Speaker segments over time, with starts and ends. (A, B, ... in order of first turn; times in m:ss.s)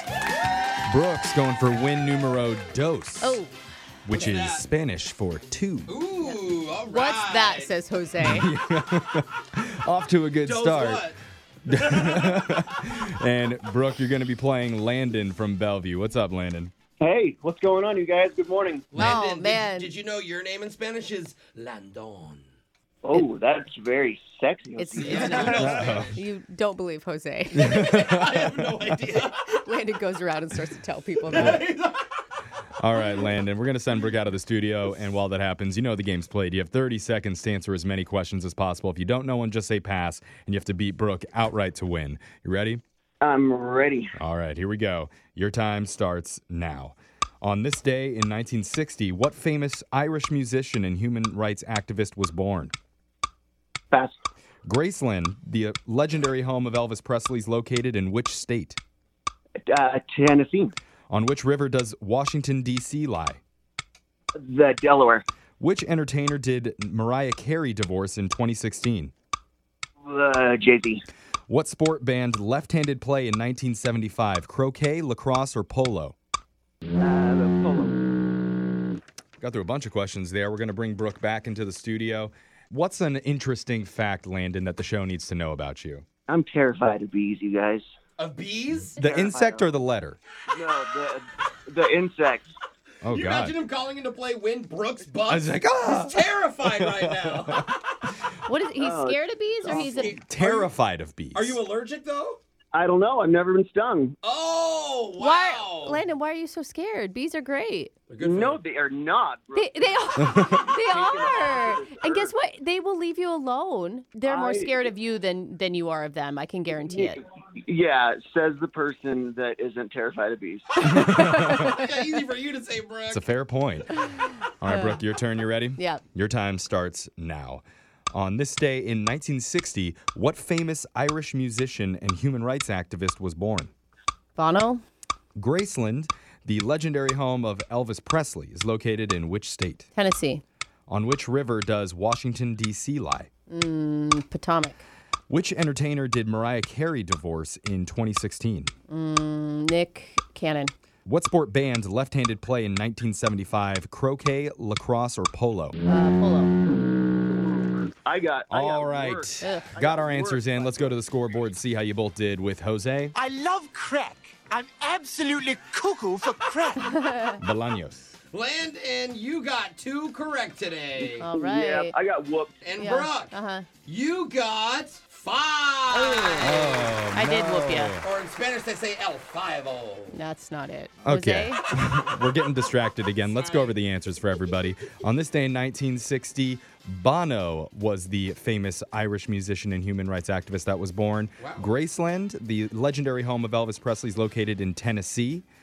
0:00.9-0:03.4 A
0:03.2-0:03.6 B
0:04.0-0:05.9 A
0:04.1-0:04.7 C
0:05.9-0:07.7 C
0:06.8-0:08.5 B
0:08.2-0:11.1 A
0:10.4-0:12.5 C
0:11.7-0:16.7 A
0:17.0-0:18.9 D
0:18.9-0:22.4 C
0:19.0-0:19.9 B
0:23.0-0:25.6 D
0:24.8-0:27.9 B
0:24.9-0:26.2 C
0:25.4-0:26.2 A
0:27.6-0:28.7 A
0:27.6-0:29.4 C
0:29.2-0:31.6 B
0:31.3-0:32.0 C
0:32.8-0:42.8 A
0:43.2-0:44.1 D
0:44.2-0:52.7 A
0:53.9-0:54.2 D
0:54.7-0:58.8 A
0:59.7-1:00.7 D
1:01.1-1:03.4 A
1:04.4-1:05.2 D
1:05.6-1:09.1 A
1:10.0-1:11.0 D
1:11.5-1:16.2 A
1:17.0-1:18.0 D
1:19.4-1:26.0 A
1:26.3-1:27.8 D
1:28.2-1:29.0 C
1:29.0-1:30.2 A
1:29.0-1:29.7 D
1:30.5-1:32.5 D
1:33.0-1:33.6 A
1:33.1-1:37.8 C
1:35.3-1:37.6 A
1:38.5-1:40.2 B
1:38.8-1:40.1 D
1:39.7-1:40.7 C
1:39.9-1:41.6 A
1:41.3-1:42.4 C
1:42.7-1:44.2 D
1:44.2-1:46.0 C
1:45.2-1:47.9 B
1:48.1-1:48.6 C
1:48.2-1:49.8 D
1:49.6-1:57.2 B
1:50.2-1:50.6 A
1:50.8-1:52.3 D
1:54.3-1:54.9 D
1:56.9-2:00.7 D
2:00.8-2:01.8 B
2:00.9-2:01.7 A
2:01.5-2:03.3 C
2:03.1-2:04.0 A
2:04.6-2:13.7 A
2:04.7-2:05.0 B
2:05.8-2:06.0 B
2:14.4-2:14.8 B
2:15.4-2:19.9 A
2:20.0-2:20.4 B
2:20.9-2:23.3 A
2:23.5-2:24.8 B
2:25.3-2:28.7 A
2:28.9-2:30.7 B
2:31.1-2:35.8 A
2:35.9-2:36.6 B
2:37.2-2:41.0 D
2:38.5-2:43.1 A
2:39.4-2:39.7 B
2:43.2-2:46.8 E
2:46.8-2:47.4 B
2:47.4-2:48.1 A
2:48.3-2:51.3 C
2:51.0-2:52.6 D
2:51.2-2:51.9 B
2:52.6-2:53.3 C
2:52.8-2:53.7 B
2:53.8-2:57.0 C
2:55.9-2:58.0 B
2:56.4-2:58.1 A
2:58.0-3:00.2 C
3:00.1-3:01.6 B
3:01.0-3:15.4 A
3:03.3-3:03.8 C
3:11.4-3:11.7 C